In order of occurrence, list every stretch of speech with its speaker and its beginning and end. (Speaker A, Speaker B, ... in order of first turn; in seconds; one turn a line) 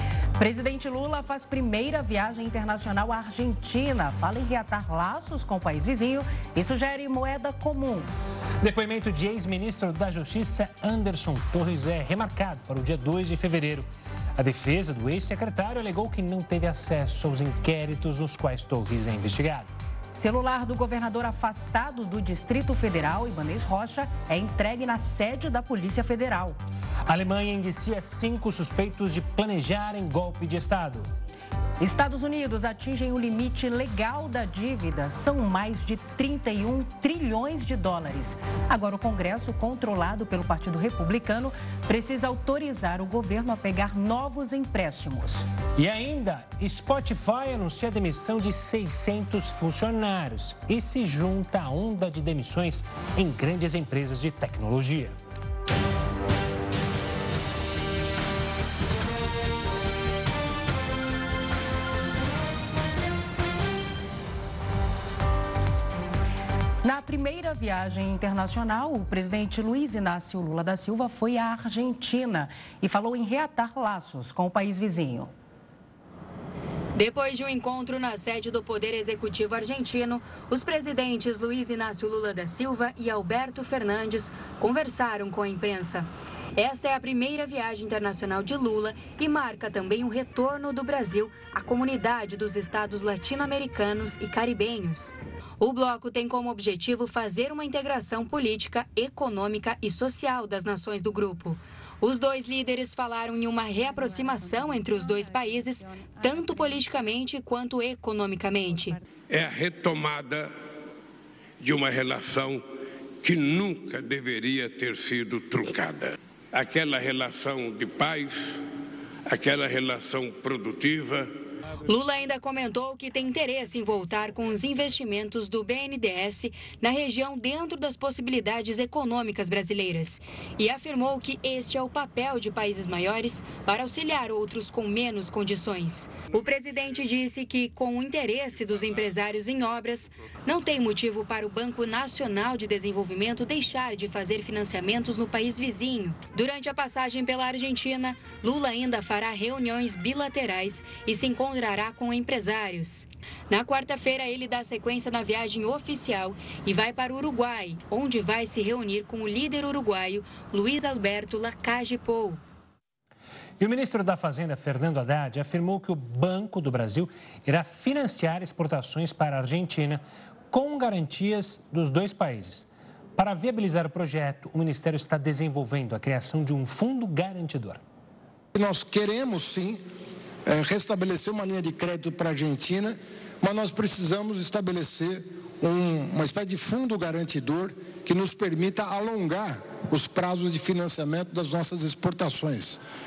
Speaker A: 0.4-8.1
Speaker B: 8.6-19.7
Speaker A: 20.2-26.6
Speaker B: 27.1-31.1
Speaker A: 31.8-45.5
Speaker B: 45.8-55.1
Speaker A: 66.8-75.3
Speaker C: 77.0-109.0
Speaker D: 109.3-110.5
Speaker D: 111.6-112.7
Speaker D: 113.2-118.6
Speaker D: 119.3-121.3
Speaker C: 121.8-162.4
Speaker B: 163.6-177.8
Speaker E: 178.5-179.8
Speaker E: 180.4-192.8